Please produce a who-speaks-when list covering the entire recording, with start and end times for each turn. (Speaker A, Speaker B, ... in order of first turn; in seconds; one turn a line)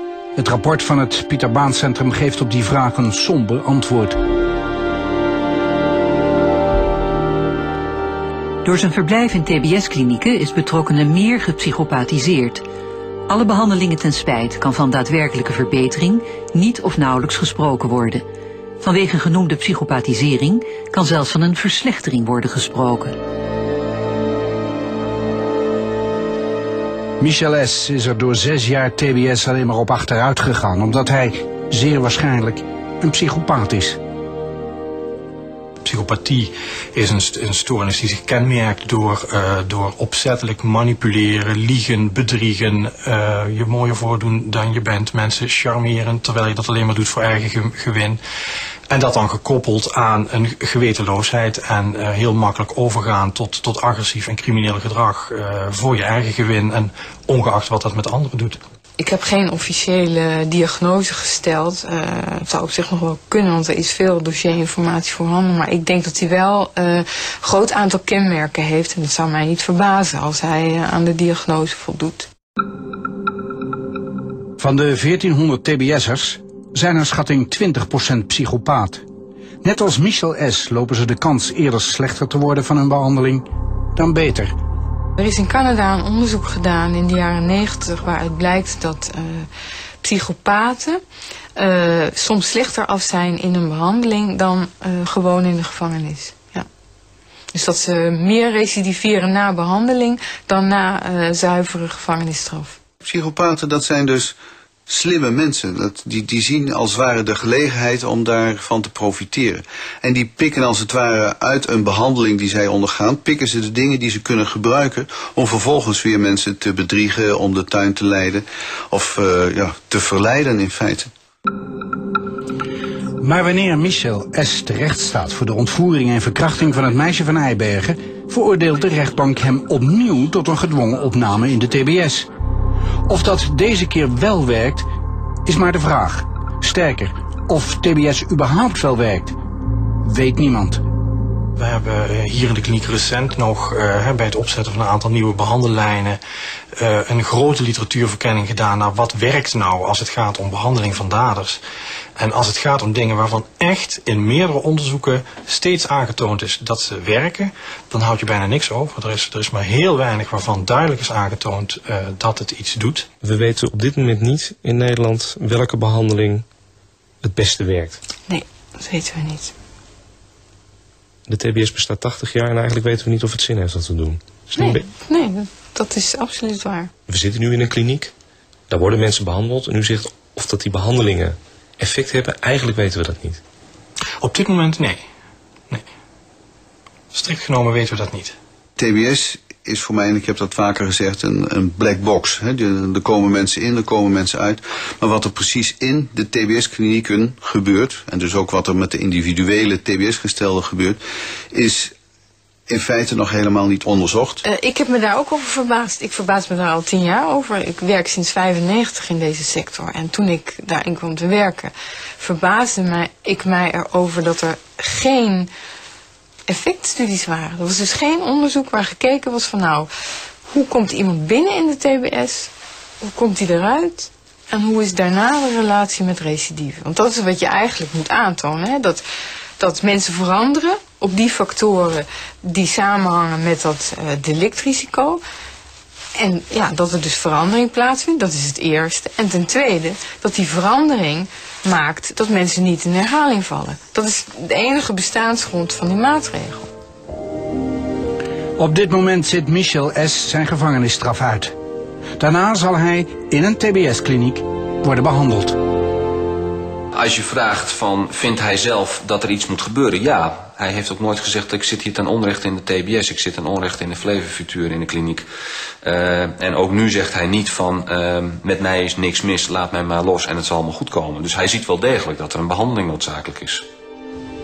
Speaker A: 0.3-4.2
Speaker B: 8.6-12.6
Speaker B: 13.3-18.2
Speaker B: 18.8-23.2
Speaker A: 27.2-34.0
Speaker C: 35.8-48.2
Speaker C: 48.9-58.6
Speaker D: 59.0-72.3
Speaker A: 74.6-79.0
Speaker A: 79.6-84.5
Speaker D: 85.2-89.5
Speaker D: 90.0-91.0
Speaker D: 91.6-96.7
Speaker D: 97.5-102.8
Speaker E: 103.0-104.3
Speaker E: 104.9-121.1
Speaker A: 123.2-132.3
Speaker A: 133.1-134.9
Speaker A: 135.4-139.4
Speaker A: 140.0-140.8
Speaker C: 141.6-146.2
Speaker C: 146.7-151.6
Speaker C: 152.2-163.1
Speaker F: 163.2-166.4
Speaker F: 167.2-168.0
Speaker D: 168.3-169.5
Speaker F: 171.3-174.8
Speaker D: 174.6-176.9
Speaker F: 177.1-178.1
Speaker F: 178.7-183.4
Speaker C: 184.2-185.0
Speaker C: 187.1-188.4
Speaker E: 188.8-201.0
Speaker E: 201.5-201.9
Speaker E: 202.7-204.4
Speaker D: 204.4-215.5
Speaker D: 216.5-219.9
Speaker D: 220.5-229.0
Speaker D: 229.6-235.2
Speaker D: 236.2-246.7
Speaker A: 248.6-251.6
Speaker A: 252.2-255.6
Speaker G: 256.9-265.3
Speaker G: 265.8-273.7